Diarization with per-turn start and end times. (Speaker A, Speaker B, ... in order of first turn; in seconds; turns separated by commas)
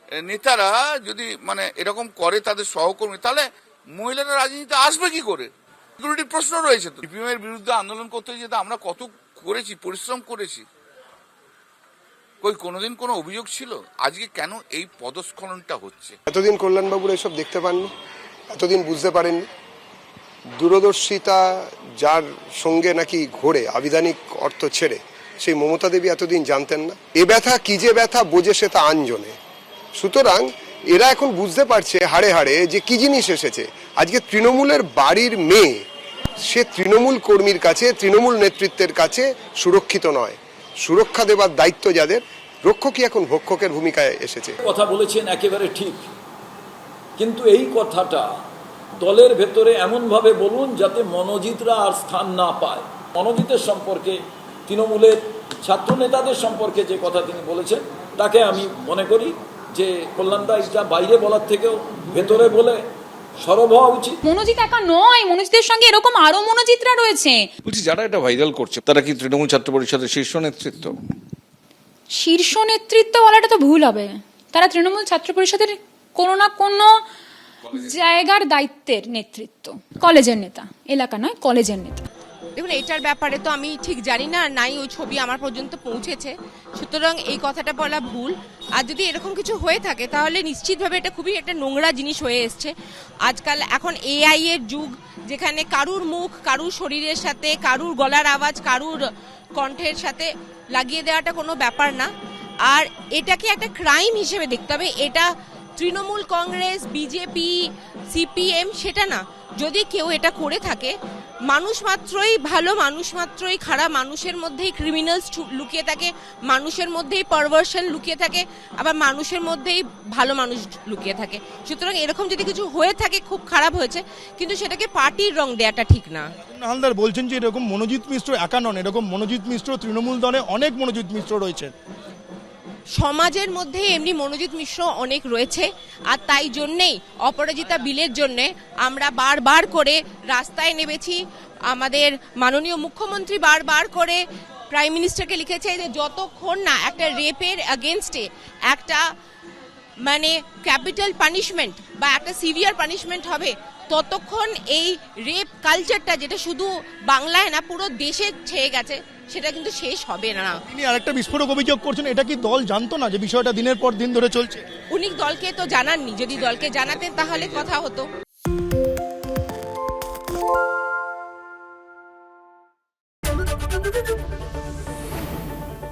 Speaker A: 0.2-10.6, Speaker A: 12.4-16.2, Speaker B: 16.3-17.9, Speaker B: 18.5-19.5, Speaker B: 20.6-29.4, Speaker B: 29.9-35.8, Speaker B: 36.4-44.6, Speaker C: 44.6-46.1, Speaker C: 47.2-48.3, Speaker C: 49.0-62.8, Speaker C: 63.4-64.2, Speaker D: 64.2-67.5, Speaker E: 67.7-71.0, Speaker D: 72.1-76.9, Speaker D: 77.7-82.0, Speaker F: 82.5-92.7, Speaker F: 93.2-99.0, Speaker F: 99.6-102.1, Speaker F: 102.7-110.9, Speaker F: 111.5-126.3, Speaker G: 126.5-131.7, Speaker F: 132.9-149.0, Speaker F: 150.0-160.6, Speaker G: 160.7-164.7, Speaker F: 164.9-168.1